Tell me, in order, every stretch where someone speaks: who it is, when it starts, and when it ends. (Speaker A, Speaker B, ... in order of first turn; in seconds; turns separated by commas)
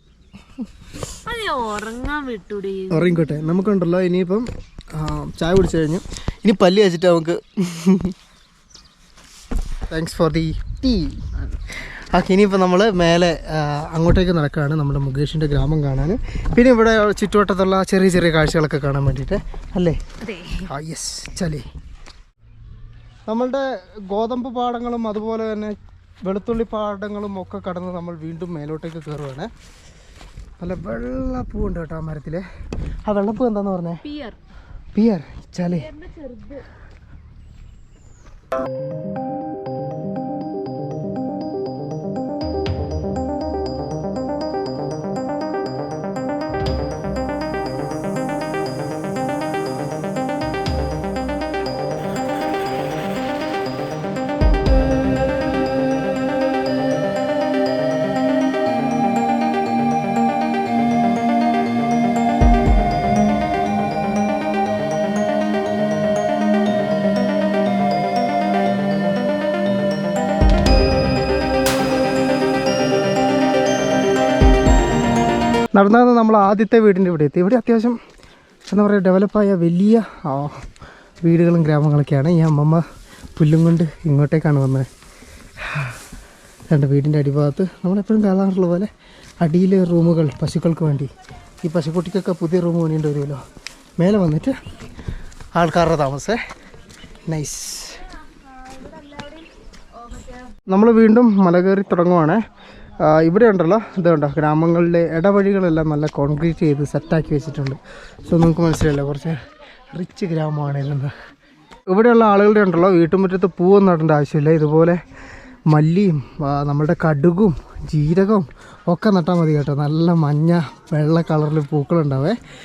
Speaker A: 1.2-3.5, Speaker B: 2.9-8.1, Speaker B: 9.9-11.2, Speaker B: 12.1-20.0, Speaker A: 20.2-20.6, Speaker B: 20.7-21.7, Speaker B: 23.3-29.5, Speaker B: 30.6-32.4, Speaker B: 33.0-34.0, Speaker A: 34.0-34.4, Speaker B: 34.9-35.9, Speaker A: 35.7-36.6, Speaker B: 75.7-78.0, Speaker B: 78.7-80.6, Speaker B: 81.2-82.8, Speaker B: 83.3-84.9, Speaker B: 85.6-86.0, Speaker B: 86.7-88.9, Speaker B: 89.4-91.1, Speaker B: 91.6-93.4, Speaker B: 94.0-94.5, Speaker B: 95.5-96.4, Speaker B: 97.3-98.0, Speaker A: 98.7-99.4, Speaker B: 100.7-102.4, Speaker B: 103.0-109.4, Speaker B: 109.9-111.1, Speaker B: 111.9-115.0, Speaker B: 115.7-122.4